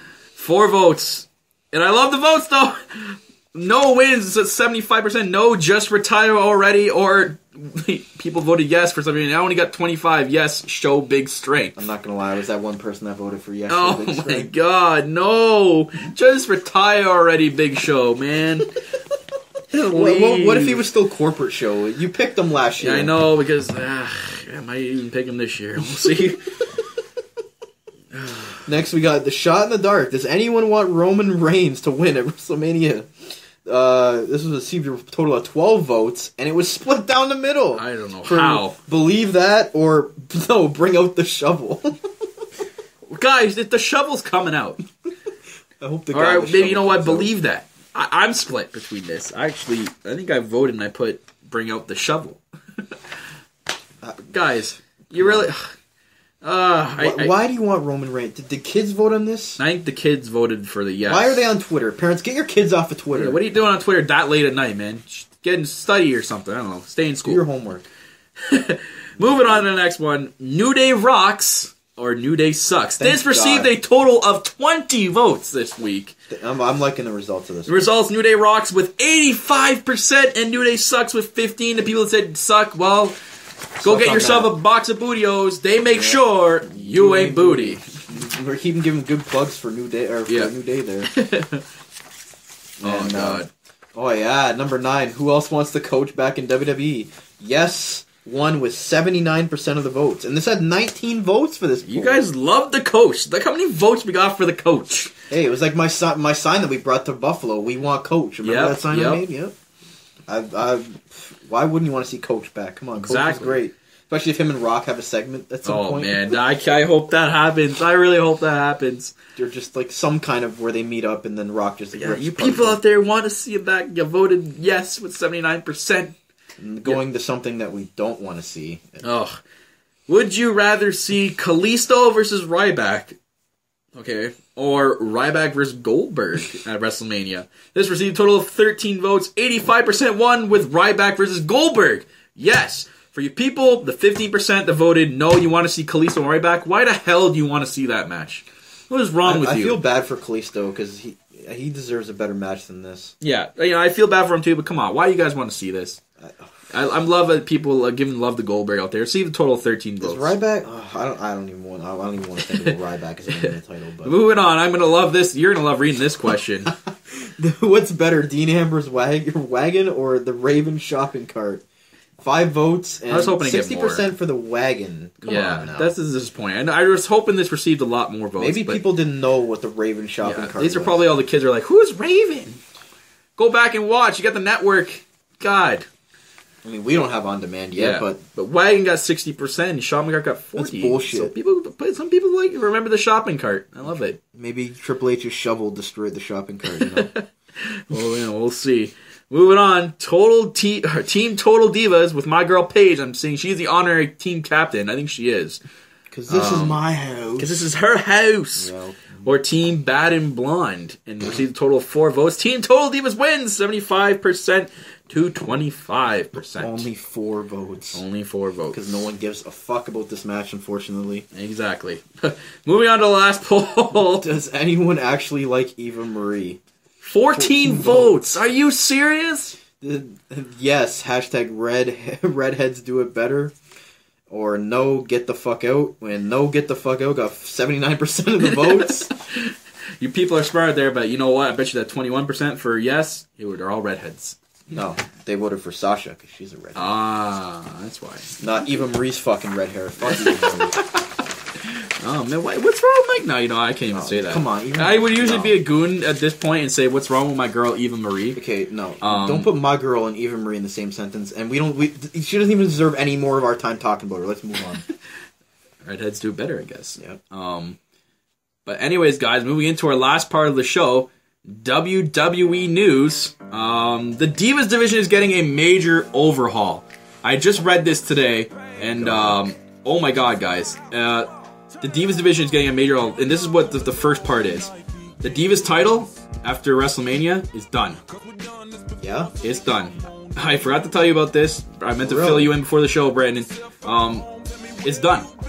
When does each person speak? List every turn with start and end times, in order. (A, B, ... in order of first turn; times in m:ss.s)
0:00.4-0:11.8 A
0:11.8-0:14.5 B
0:13.7-0:18.7 A
0:19.7-0:20.8 A
0:19.8-0:23.1 B
0:22.8-0:26.7 A
0:28.1-0:28.6 A
0:28.7-0:42.1 B
0:37.8-0:38.8 A
0:43.1-0:44.8 A
0:45.8-0:47.3 B
0:46.1-0:52.4 A
0:54.3-0:55.7 A
0:55.2-0:55.5 B
0:56.4-0:57.3 A
0:57.0-0:59.6 B
0:59.6-1:01.5 A
1:01.1-1:03.4 B
1:03.2-1:07.4 A
1:07.2-1:07.9 B
1:08.4-1:16.2 A
1:09.2-1:09.7 B
1:13.0-1:13.7 B
1:16.3-1:17.9 B
1:17.7-1:23.2 A
1:23.8-1:27.8 A
1:23.8-1:24.5 B
1:25.9-1:31.1 B
1:31.0-1:31.7 A
1:32.8-1:33.4 B
1:32.8-1:33.5 A
1:34.0-1:42.2 B
1:41.8-1:45.1 A
1:45.3-1:49.6 B
1:48.4-1:49.3 A
1:50.3-1:56.4 B
1:53.0-1:53.6 A
1:55.6-1:59.1 A
1:59.4-2:02.8 B
2:01.9-2:06.2 A
2:06.6-2:09.0 B
2:09.0-2:09.4 A
2:10.1-2:13.2 A
2:14.0-2:29.8 A
2:29.2-2:33.1 B
2:33.2-2:36.0 A
2:36.2-2:36.5 B
2:36.7-2:40.3 A
2:40.0-2:44.2 B
2:44.0-2:46.7 A
2:47.1-2:51.6 B
2:52.2-2:55.9 B
2:53.1-2:54.1 A
2:55.2-2:58.8 A
2:58.4-3:01.0 B
3:00.2-3:02.6 A
3:03.4-3:05.9 A
3:06.6-3:08.2 B
3:07.7-3:14.2 A
3:10.6-3:11.3 B
3:14.2-3:17.1 B
3:16.7-3:25.6 A
3:26.1-3:27.6 B
3:26.3-3:26.8 A
3:27.4-3:36.9 A
3:28.6-3:29.2 B
3:36.6-3:38.0 B
3:37.9-3:38.9 A
3:38.7-3:41.3 B
3:41.3-3:44.3 A
3:44.2-3:46.6 B
3:47.0-3:49.6 A
3:47.3-3:48.2 B
3:49.8-3:53.5 B
3:54.3-3:59.1 B
3:58.4-4:04.4 A
4:04.7-4:06.9 B
4:06.8-4:08.4 A
4:08.4-4:10.8 B
4:10.0-4:11.1 A
4:11.6-4:18.4 A
4:13.9-4:15.6 B
4:18.4-4:24.8 B
4:19.0-4:19.5 A
4:25.8-4:27.8 A
4:28.6-4:41.3 A
4:38.8-4:39.4 B
4:41.8-4:48.0 A
4:49.0-4:49.3 B
4:49.4-4:54.3 A
4:52.0-4:52.5 B
4:54.8-4:55.3 A